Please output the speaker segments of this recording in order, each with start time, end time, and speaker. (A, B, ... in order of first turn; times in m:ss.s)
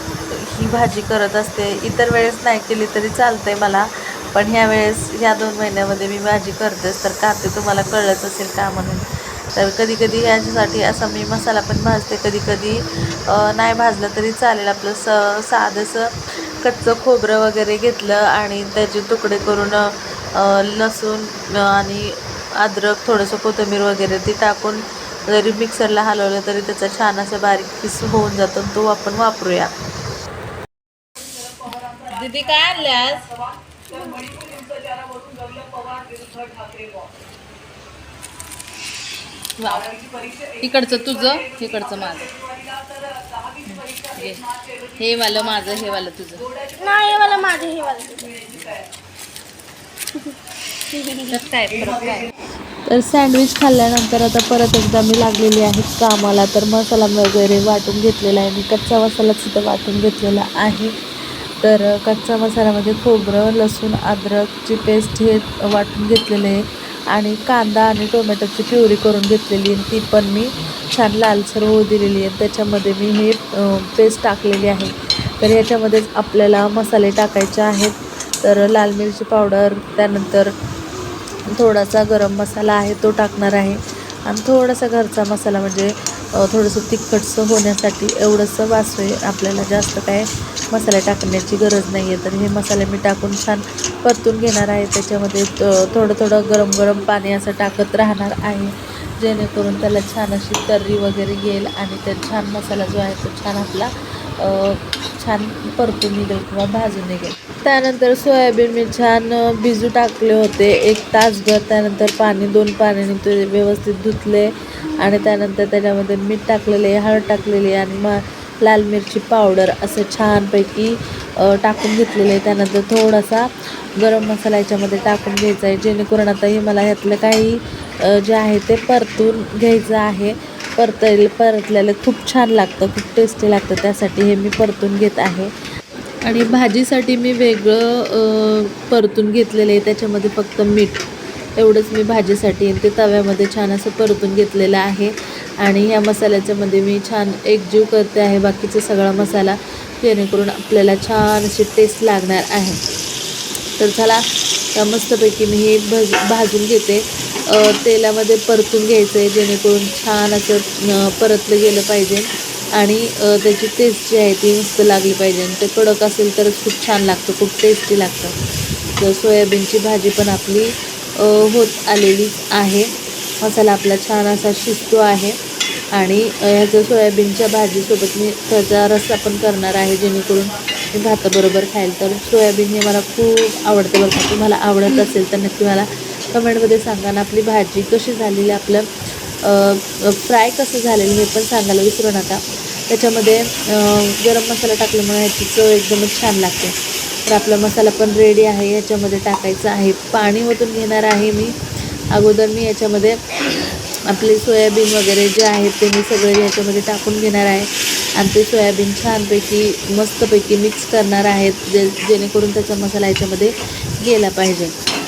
0:00.3-0:09.0 A
0:09.6-0:29.7 A
0:31.7-0:32.6 B
0:32.1-0:33.3 A
0:34.1-0:36.7 B
0:39.6-0:42.4 B
0:40.6-0:41.5 A
0:43.7-0:44.4 A
0:44.0-0:44.4 B
0:45.0-0:46.5 B
0:46.8-0:48.4 C
0:50.9-0:51.5 C
0:51.3-0:52.3 A
0:52.8-1:00.9 A
1:01.6-1:20.5 A
1:21.6-2:15.5 A
2:16.2-2:21.0 A
2:21.6-2:32.8 A
2:33.8-2:34.2 A
2:34.8-2:48.3 A
2:49.0-2:52.9 A
2:53.4-2:55.4 A
2:55.9-3:08.9 A
3:04.9-3:05.2 B
3:09.4-3:16.7 A
3:17.3-3:21.6 A
3:22.1-3:34.7 A